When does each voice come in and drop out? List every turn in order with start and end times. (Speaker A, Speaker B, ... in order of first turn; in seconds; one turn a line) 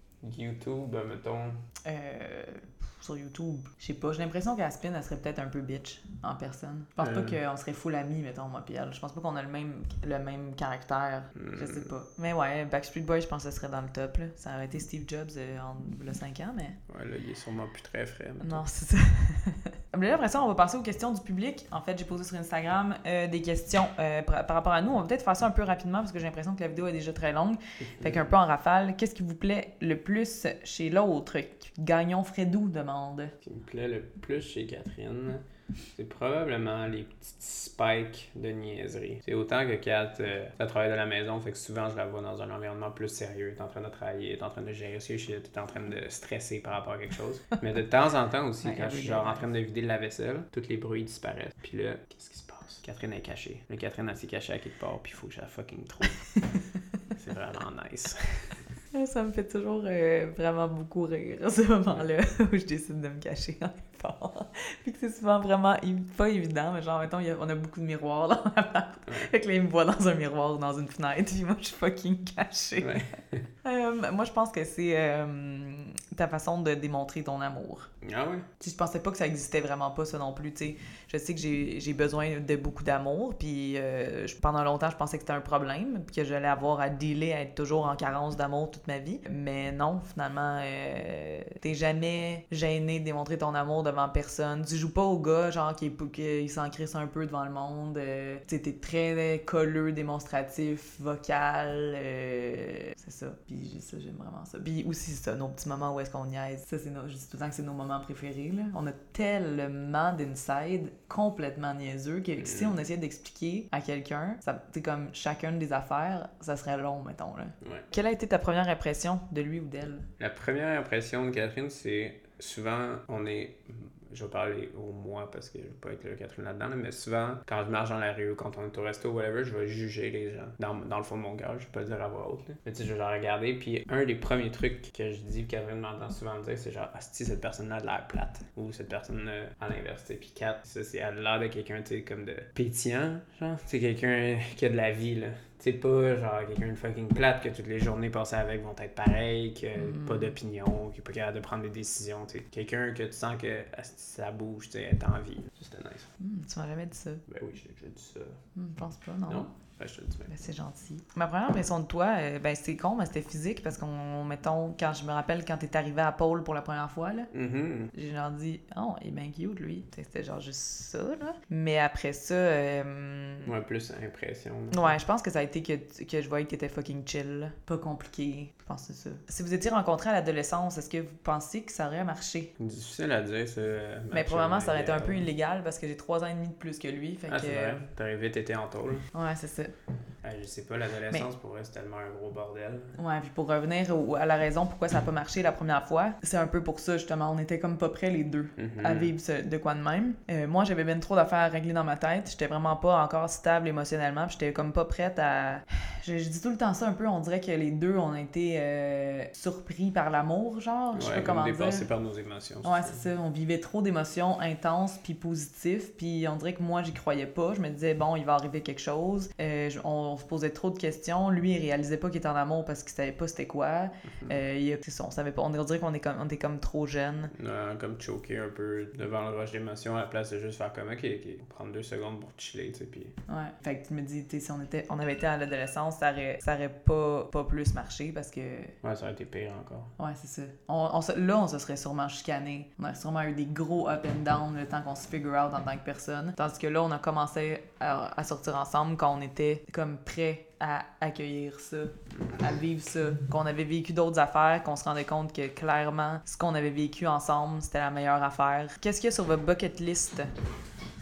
Speaker A: 0.2-1.6
Speaker B: 1.8-16.8
Speaker A: 7.0-7.4
Speaker A: 11.3-11.9
Speaker A: 16.9-18.6
Speaker B: 18.4-33.4
Speaker A: 28.0-28.2
Speaker A: 33.4-56.3
Speaker B: 48.6-49.5
Speaker A: 57.1-58.6
Speaker B: 58.9-73.0
Speaker A: 72.8-73.5
Speaker B: 73.6-77.9
Speaker A: 78.0-78.5
Speaker B: 78.6-120.1
Speaker A: 112.4-112.8
Speaker A: 117.6-117.9
Speaker A: 120.2-156.1
Speaker B: 149.8-150.3
Speaker B: 156.2-157.2
Speaker A: 157.3-158.4
Speaker B: 158.6-159.5
Speaker A: 159.3-160.3
Speaker B: 160.3-167.3
Speaker A: 167.3-167.9
Speaker B: 167.9-173.5
Speaker A: 173.4-174.9
Speaker B: 174.7-182.5
Speaker A: 182.6-185.3
Speaker B: 184.1-187.8
Speaker A: 187.3-189.1
Speaker B: 189.1-189.7
Speaker A: 190.2-193.0
Speaker B: 193.0-211.9
Speaker A: 198.6-199.1
Speaker A: 210.9-213.0
Speaker B: 212.6-227.3
Speaker A: 227.3-233.2
Speaker B: 233.3-238.8
Speaker A: 238.8-239.9
Speaker B: 240.0-260.3